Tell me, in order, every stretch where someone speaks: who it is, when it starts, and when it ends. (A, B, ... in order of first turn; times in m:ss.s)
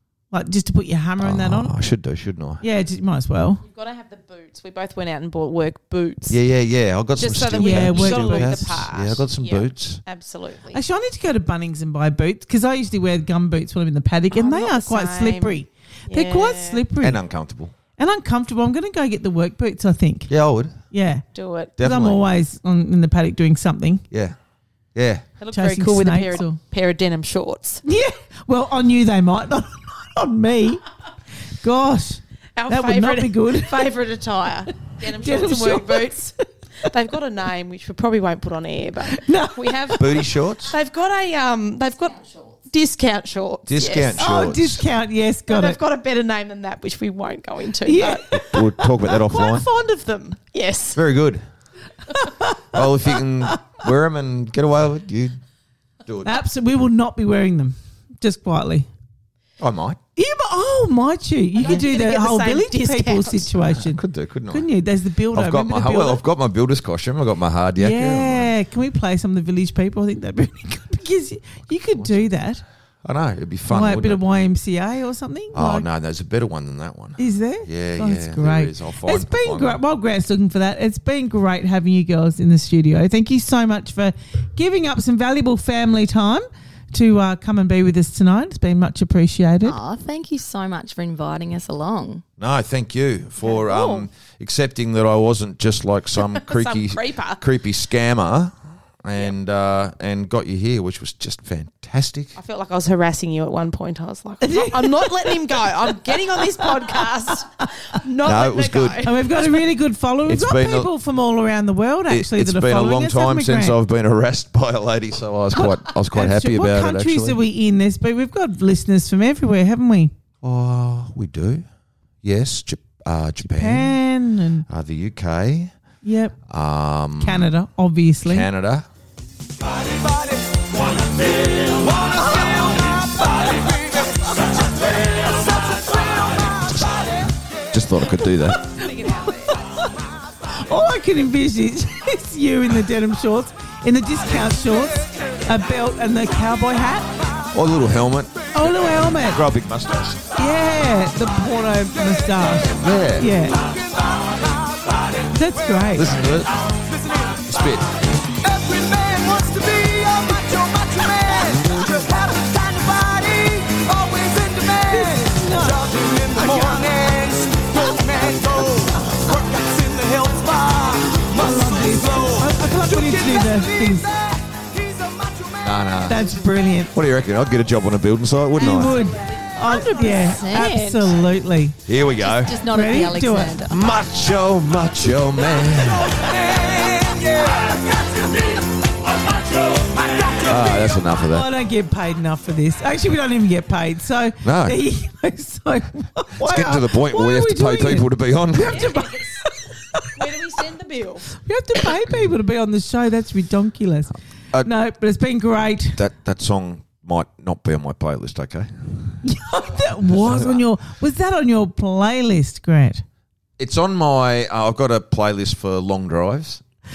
0:00.3-0:01.7 A
0:01.2-0:02.6 B
0:02.6-0:03.6 A
0:03.6-0:06.4 C
0:06.3-0:10.0 B
0:07.2-0:10.8 C
0:07.6-0:08.6 A
0:10.7-0:17.2 A
0:14.3-0:15.6 C
0:16.1-0:16.8 C
0:17.0-0:17.8 B
0:18.0-0:20.3 A
0:20.3-0:20.8 B
0:20.9-0:21.2 A
0:21.3-0:21.7 C
0:21.8-0:22.2 B
0:21.8-0:24.0 A
0:24.1-0:24.4 B
0:25.0-0:25.2 B
0:25.4-0:27.8 C
0:25.5-0:26.6 A
0:27.8-0:30.8 A
0:31.6-0:33.9 A
0:32.6-0:44.3 C
0:34.7-0:36.3 A
0:39.1-0:40.0 A
0:40.0-0:40.8 B
0:43.7-0:44.8 B
0:44.2-0:45.8 A
0:45.5-0:48.4 C
0:47.8-0:48.9 A
0:48.3-0:49.7 B
0:49.1-0:51.0 C
0:51.0-0:51.4 B
0:52.1-0:52.8 A
0:52.7-0:55.4 B
0:56.0-0:56.4 B
0:56.2-0:58.9 A
0:59.6-1:00.0 B
1:00.2-1:06.2 A
1:01.6-1:03.5 C
1:03.6-1:04.7 B
1:05.3-1:08.5 B
1:07.8-1:12.6 A
1:12.0-1:12.3 B
1:13.0-1:14.2 B
1:13.7-1:15.9 A
1:15.5-1:19.8 B
1:17.2-1:29.8 A
1:29.6-1:32.2 D
1:32.4-1:42.4 B
1:33.6-1:33.9 D
1:36.2-1:37.4 C
1:42.4-1:49.4 C
1:44.4-1:47.0 A
1:48.2-1:49.1 B
1:49.0-1:53.8 A
1:50.3-1:50.9 B
1:52.1-1:57.4 B
1:55.5-2:00.1 A
2:00.4-2:01.6 B
2:02.2-2:04.0 B
2:03.4-2:04.7 A
2:04.7-2:05.7 B
2:06.0-2:06.4 A
2:06.5-2:07.5 B
2:07.2-2:08.5 A
2:08.2-2:08.9 B
2:09.9-2:16.9 E
2:12.1-2:14.3 A
2:16.7-2:18.6 B
2:18.7-2:19.6 C
2:18.8-2:19.9 A
2:20.5-2:27.1 A
2:27.5-2:30.2 B
2:28.5-2:29.4 A
2:30.4-2:33.6 A
2:32.7-2:33.3 B
2:33.5-2:35.3 E
2:35.3-2:36.2 A
2:35.9-2:36.6 B
2:36.6-2:37.7 E
2:37.5-2:37.9 B
2:38.4-2:56.0 E
2:44.8-2:47.0 A
2:51.3-2:54.1 A
2:55.6-2:59.0 B
2:56.1-2:56.9 A
2:58.6-3:01.8 A
2:58.7-3:00.8 C
2:59.6-3:01.1 D
3:01.9-3:02.6 B
3:02.2-3:03.6 D
3:02.3-3:03.8 C
3:02.7-3:03.6 A
3:03.7-3:06.3 B
3:05.8-3:11.1 E
3:06.4-3:07.2 A
3:10.4-3:11.5 B
3:11.2-3:20.2 A
3:14.4-3:14.8 B
3:16.4-3:19.0 B
3:18.7-3:19.5 C
3:20.2-3:21.3 C
3:21.3-3:26.0 A
3:26.0-3:29.2 B
3:29.2-3:33.0 A
3:30.0-3:30.6 B
3:33.6-3:36.6 B